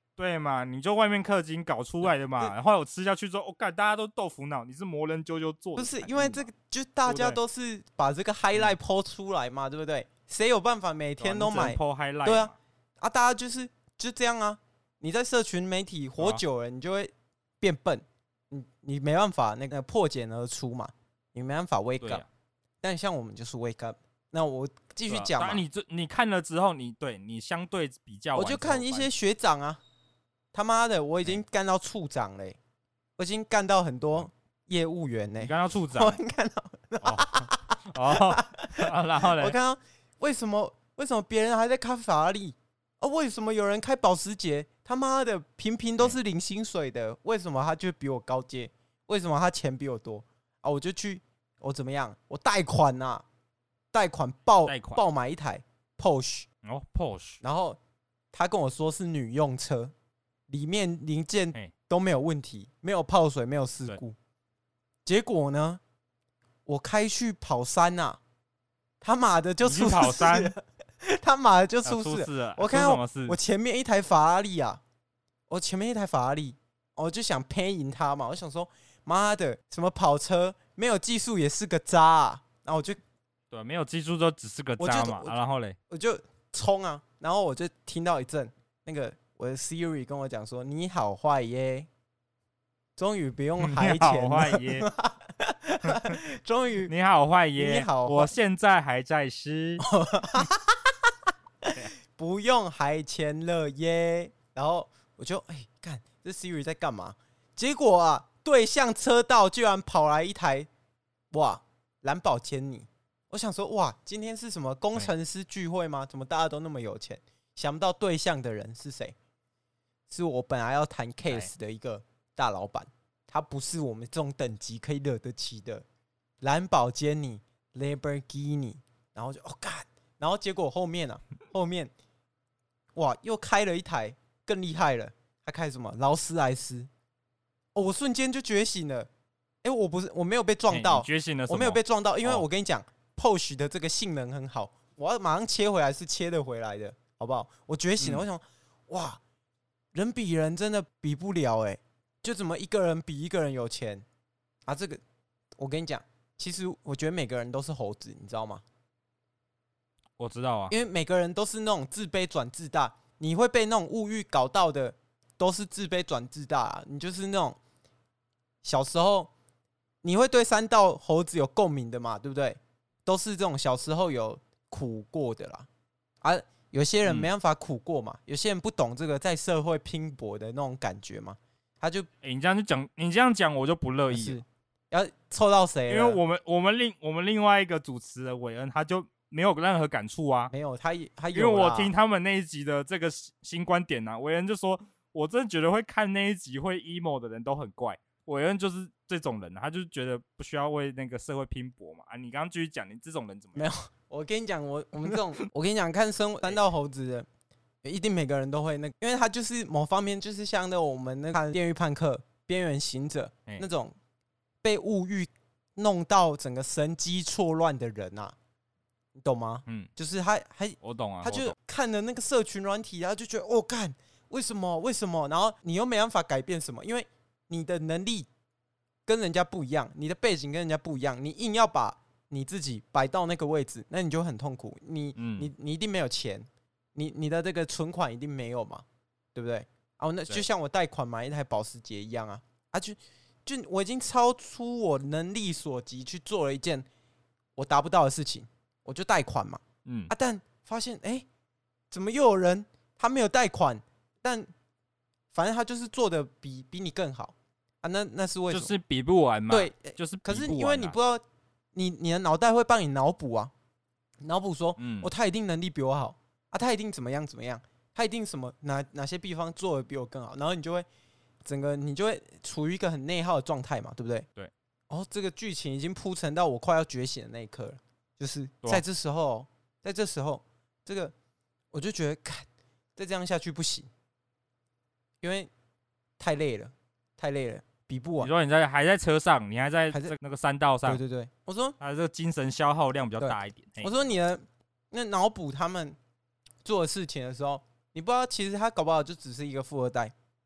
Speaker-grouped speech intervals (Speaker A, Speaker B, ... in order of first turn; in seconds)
Speaker A: 0.2-6.5, 7.0-7.4, 11.2-12.6, 22.0-22.3, 25.1-29.1, 35.4-36.2, 37.0-39.5, 54.6-55.0, 56.6-57.4, 69.6-70.5, 71.8-73.4, 83.5-85.8, 93.6-94.9, 95.8-96.2, 96.9-99.8, 140.7-142.4, 160.2-160.7, 177.0-177.3, 182.2-184.4, 185.9-190.5, 191.3-203.7, 220.8-221.5, 235.2-235.5, 249.8-250.1, 258.5-261.0, 264.8-265.1, 288.2-291.0, 291.8-294.1
Speaker B: 5.8-22.2, 22.8-25.6, 28.3-29.8, 30.5-32.6, 33.2-53.2, 53.9-56.5, 57.4-57.8, 58.3-59.9, 60.5-64.2, 65.0-65.8, 66.7-68.2, 69.0-74.8, 75.5-83.0, 84.8-85.3, 85.9-91.9, 93.0-96.9, 97.5-98.3, 99.8-101.1, 101.6-110.7, 111.3-119.1, 120.1-125.8, 126.4-131.9, 132.9-136.9, 137.7-139.1, 139.6-149.2, 149.9-154.1, 154.7-155.0, 155.6-158.6, 160.7-167.6, 168.6-169.3, 170.0-175.7, 176.2-182.1, 184.1-186.2, 190.5-191.9, 203.6-207.3, 207.8-213.9, 214.6-218.3, 219.1-228.3, 229.1-246.8, 247.6-251.2, 251.9-254.5, 255.3-258.7, 259.5-261.2, 261.7-263.5, 264.2-270.9, 271.4-274.3, 274.9-281.1, 281.7-283.9, 285.2-285.5, 286.2-288.3, 290.8-291.8, 293.2-296.0, 296.6-300.1